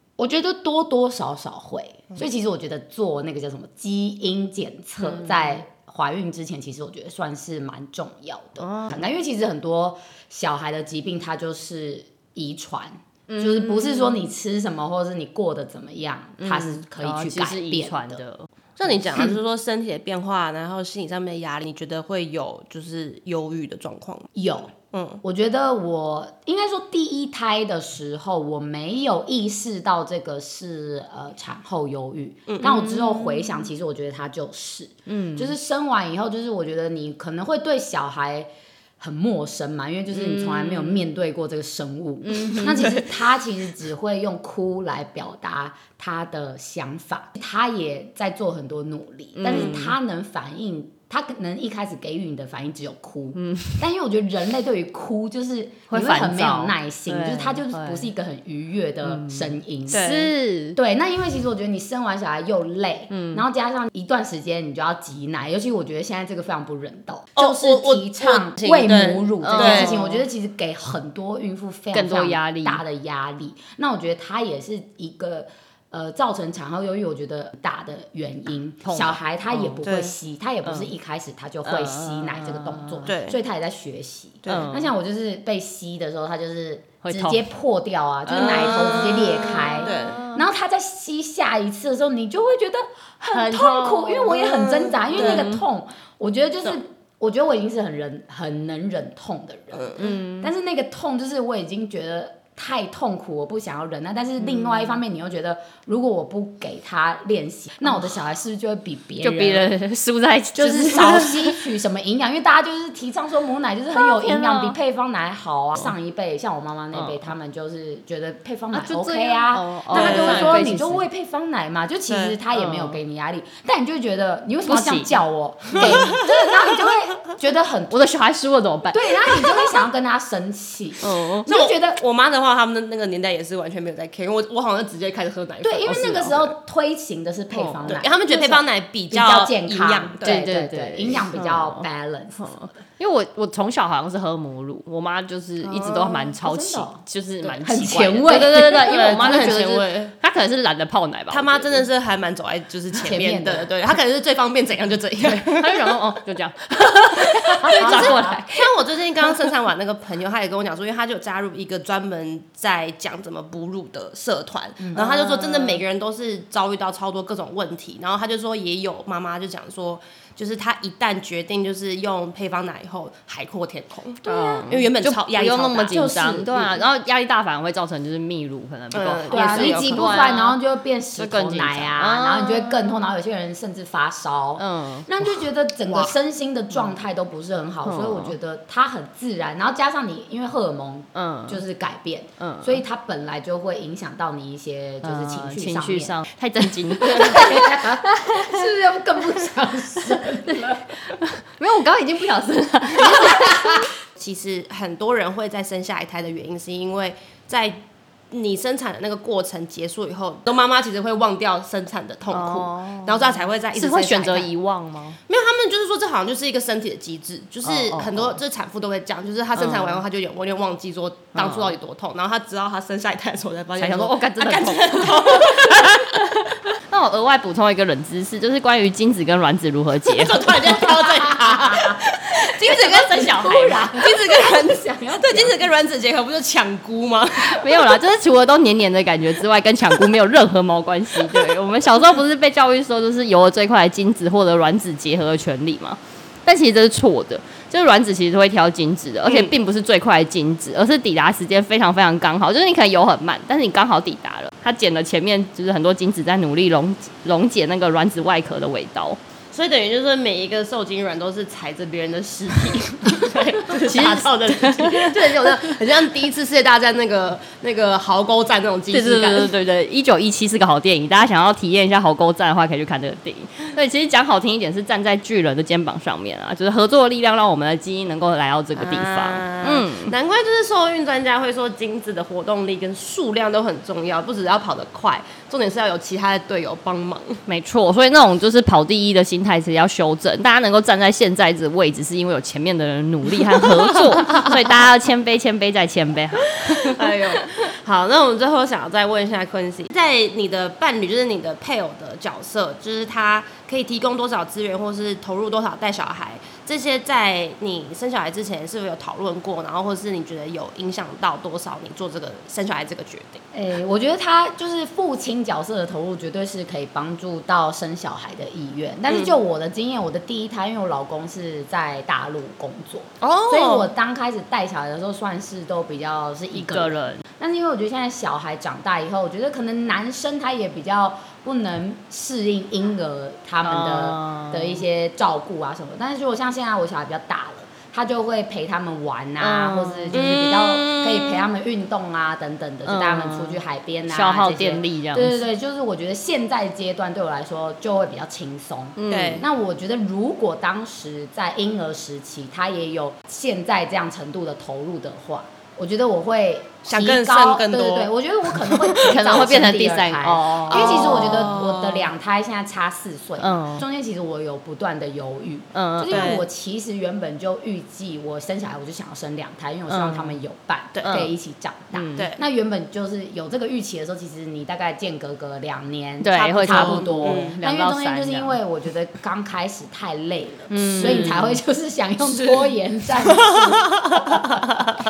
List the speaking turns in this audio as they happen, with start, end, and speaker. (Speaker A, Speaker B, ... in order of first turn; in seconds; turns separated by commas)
Speaker A: 0.2-18.2, Speaker B: 8.6-9.0, Speaker B: 13.3-14.2, Speaker B: 16.4-18.5, Speaker C: 18.8-24.3, Speaker A: 24.3-60.1, Speaker C: 24.9-25.2, Speaker B: 32.6-33.6, Speaker B: 35.1-35.5, Speaker B: 40.1-41.0, Speaker B: 42.3-42.9, Speaker B: 49.3-50.0, Speaker B: 53.3-53.8, Speaker B: 55.9-58.1, Speaker B: 59.0-60.8, Speaker C: 59.9-60.3, Speaker A: 60.8-109.7, Speaker B: 63.1-63.4, Speaker C: 67.3-70.0, Speaker B: 69.4-70.2, Speaker B: 71.9-72.8, Speaker B: 78.8-79.8, Speaker C: 79.8-80.2, Speaker B: 80.6-80.9, Speaker B: 81.6-83.1, Speaker C: 83.0-83.4, Speaker C: 84.4-84.7, Speaker B: 84.5-84.9, Speaker B: 87.0-87.4, Speaker B: 88.3-90.4, Speaker C: 88.4-90.2, Speaker B: 93.3-94.3, Speaker C: 94.2-95.5, Speaker B: 95.2-95.6, Speaker C: 99.7-100.0, Speaker B: 100.0-100.5, Speaker B: 104.5-104.9, Speaker B: 109.2-111.6, Speaker A: 110.5-128.1, Speaker B: 114.0-114.8, Speaker B: 116.9-117.3, Speaker B: 118.7-121.0, Speaker C: 119.9-120.6, Speaker C: 122.1-122.4, Speaker B: 122.5-123.0, Speaker B: 124.7-125.2, Speaker B: 125.7-126.2, Speaker C: 125.8-126.2, Speaker B: 127.9-129.5, Speaker A: 128.9-132.0, Speaker B: 131.0-131.5, Speaker C: 131.5-136.5, Speaker A: 135.6-142.8, Speaker B: 137.5-137.9, Speaker C: 137.8-140.4, Speaker B: 140.2-141.8, Speaker B: 142.4-151.8, Speaker C: 145.7-146.2, Speaker A: 146.2-149.0, Speaker C: 148.7-150.1, Speaker C: 151.3-156.0, Speaker A: 153.0-153.7, Speaker B: 155.2-158.7, Speaker A: 157.6-158.3, Speaker C: 157.7-176.8, Speaker B: 164.9-165.8, Speaker B: 174.2-180.6, Speaker C: 178.9-180.3, Speaker A: 179.3-196.2, Speaker B: 181.2-182.8, Speaker B: 184.6-185.1, Speaker B: 187.8-188.3, Speaker B: 191.1-191.6, Speaker B: 192.4-192.8, Speaker B: 195.0-198.5, Speaker A: 196.9-200.9, Speaker B: 200.5-203.8, Speaker A: 203.0-203.8, Speaker C: 204.1-214.5, Speaker B: 212.3-215.2, Speaker C: 215.3-226.1, Speaker B: 217.6-218.4, Speaker B: 219.6-220.0, Speaker B: 221.3-221.8, Speaker B: 223.8-230.8, Speaker C: 230.1-237.9, Speaker A: 231.2-231.9, Speaker B: 232.6-233.9, Speaker A: 232.7-235.6, Speaker B: 237.4-259.2, Speaker C: 259.5-269.5, Speaker B: 263.7-265.5, Speaker B: 268.9-280.1, Speaker C: 278.8-287.4, Speaker B: 287.5-297.4, Speaker C: 296.7-313.4, Speaker A: 313.5-384.4, Speaker C: 319.1-319.3, Speaker C: 323.2-323.9, Speaker B: 326.5-327.2, Speaker B: 333.6-334.8, Speaker B: 339.4-340.3, Speaker C: 340.1-341.5, Speaker B: 342.8-345.4, Speaker B: 349.0-349.4, Speaker C: 349.1-349.4, Speaker C: 356.8-359.0, Speaker B: 359.0-361.5, Speaker C: 360.7-362.1, Speaker B: 363.4-363.8, Speaker B: 365.7-366.4, Speaker C: 366.1-366.4, Speaker B: 369.9-370.4, Speaker C: 370.9-371.3, Speaker B: 371.0-371.3, Speaker B: 371.9-372.3, Speaker B: 376.2-378.6, Speaker C: 376.6-377.6, Speaker B: 380.7-381.6, Speaker C: 382.2-382.7, Speaker C: 383.2-384.6